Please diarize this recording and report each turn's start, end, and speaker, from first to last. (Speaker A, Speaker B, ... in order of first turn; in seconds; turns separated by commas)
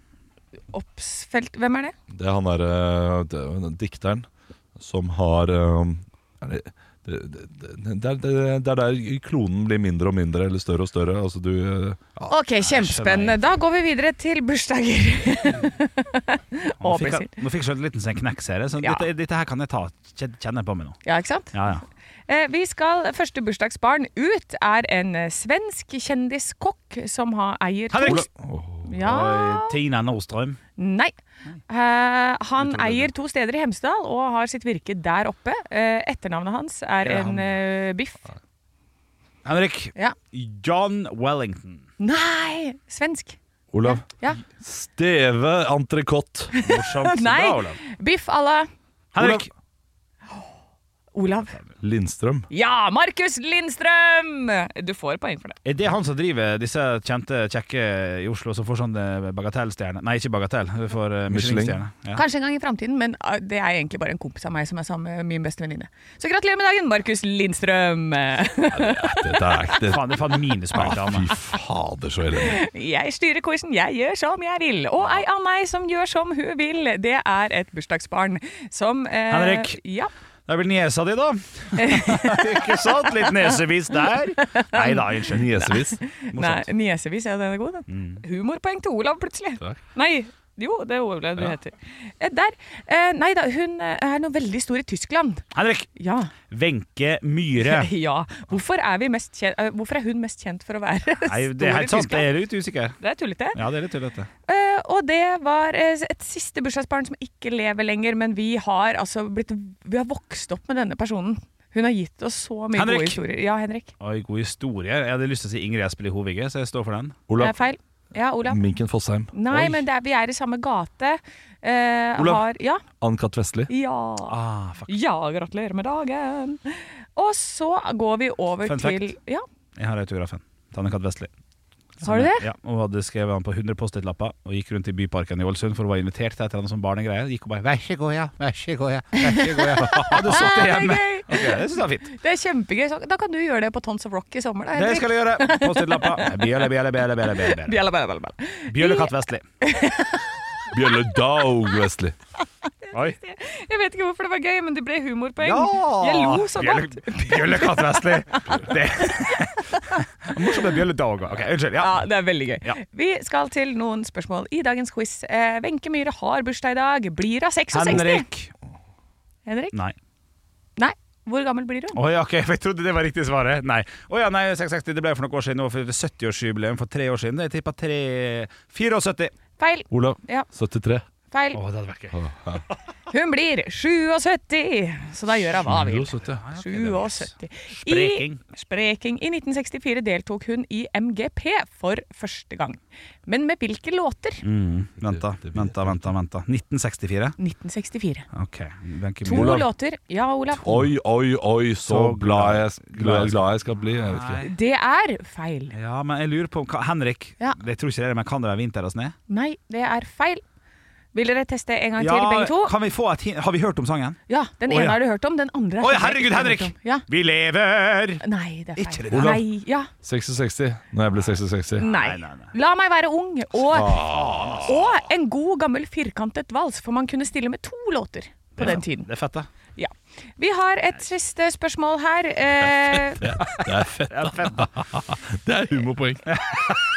Speaker A: 0.7-1.9, Speaker B: 2.1-12.3, Speaker A: 12.3-17.3, Speaker C: 12.6-13.4, Speaker C: 16.8-21.0, Speaker A: 18.8-19.1, Speaker A: 21.1-21.7, Speaker C: 21.5-21.9, Speaker A: 22.3-28.3, Speaker C: 27.9-28.3, Speaker B: 28.0-29.0, Speaker A: 28.9-29.8, Speaker C: 29.0-30.6, Speaker A: 30.8-31.1, Speaker A: 31.7-38.2, Speaker C: 32.6-33.1, Speaker C: 37.0-37.5, Speaker C: 39.5-41.9, Speaker A: 42.0-44.4, Speaker B: 43.7-46.5, Speaker A: 46.5-48.7, Speaker C: 46.6-47.8, Speaker C: 49.1-49.5, Speaker B: 49.2-49.5, Speaker A: 51.1-51.6, Speaker B: 51.8-52.5, Speaker A: 52.5-55.6, Speaker C: 55.6-62.2, Speaker B: 61.3-61.8, Speaker A: 62.1-69.9, Speaker B: 68.7-72.6, Speaker C: 69.8-71.3, Speaker A: 72.4-80.1, Speaker C: 79.3-79.8, Speaker C: 80.5-85.5, Speaker A: 81.8-83.6, Speaker A: 84.4-95.5, Speaker B: 85.3-86.0, Speaker C: 86.3-86.7, Speaker C: 87.9-88.2, Speaker C: 95.5-95.9, Speaker A: 96.0-96.3, Speaker C: 96.5-97.9, Speaker A: 97.6-102.3, Speaker C: 101.2-103.0, Speaker A: 103.0-103.6, Speaker C: 103.5-104.3, Speaker A: 104.5-113.9, Speaker C: 112.8-113.2, Speaker C: 114.0-117.2, Speaker B: 117.3-117.5, Speaker A: 117.4-118.6, Speaker B: 118.5-119.8, Speaker A: 119.3-122.8, Speaker B: 122.2-122.4, Speaker B: 123.0-123.7, Speaker A: 123.7-129.5, Speaker C: 124.3-125.0, Speaker C: 128.6-129.1, Speaker C: 129.8-131.3, Speaker C: 132.0-142.1, Speaker A: 132.0-132.5, Speaker A: 139.1-146.7, Speaker B: 140.0-140.3, Speaker C: 144.7-147.8, Speaker A: 147.3-149.1, Speaker C: 148.7-149.4, Speaker A: 149.6-150.2, Speaker B: 150.7-152.1, Speaker A: 152.8-159.5, Speaker C: 152.9-153.2, Speaker C: 155.4-162.1, Speaker A: 161.8-168.3, Speaker C: 167.7-168.5, Speaker A: 169.5-169.8, Speaker A: 170.8-172.0, Speaker C: 171.9-179.3, Speaker A: 179.6-180.5, Speaker B: 179.9-181.1, Speaker A: 181.3-181.6, Speaker C: 181.5-182.2, Speaker B: 182.1-182.6, Speaker A: 183.1-194.4, Speaker B: 185.6-186.4, Speaker C: 186.3-188.4, Speaker C: 194.4-197.4, Speaker B: 195.0-196.0, Speaker A: 197.4-198.3, Speaker C: 198.3-199.6, Speaker A: 199.2-200.8, Speaker B: 199.3-199.7, Speaker B: 200.6-204.5, Speaker C: 201.9-204.5, Speaker A: 204.4-205.8, Speaker C: 205.7-209.2, Speaker A: 209.3-210.4, Speaker A: 211.1-212.7, Speaker C: 212.0-215.0, Speaker A: 214.3-217.1, Speaker C: 215.8-218.2, Speaker A: 218.2-219.9, Speaker C: 218.8-219.4, Speaker B: 219.1-219.4, Speaker B: 220.0-221.9, Speaker A: 221.8-224.1, Speaker C: 221.8-222.5, Speaker B: 223.7-224.7, Speaker C: 223.8-224.8, Speaker A: 224.6-229.1, Speaker C: 228.6-229.5, Speaker A: 229.8-233.3, Speaker B: 232.9-236.4, Speaker C: 234.1-234.7, Speaker C: 236.3-236.8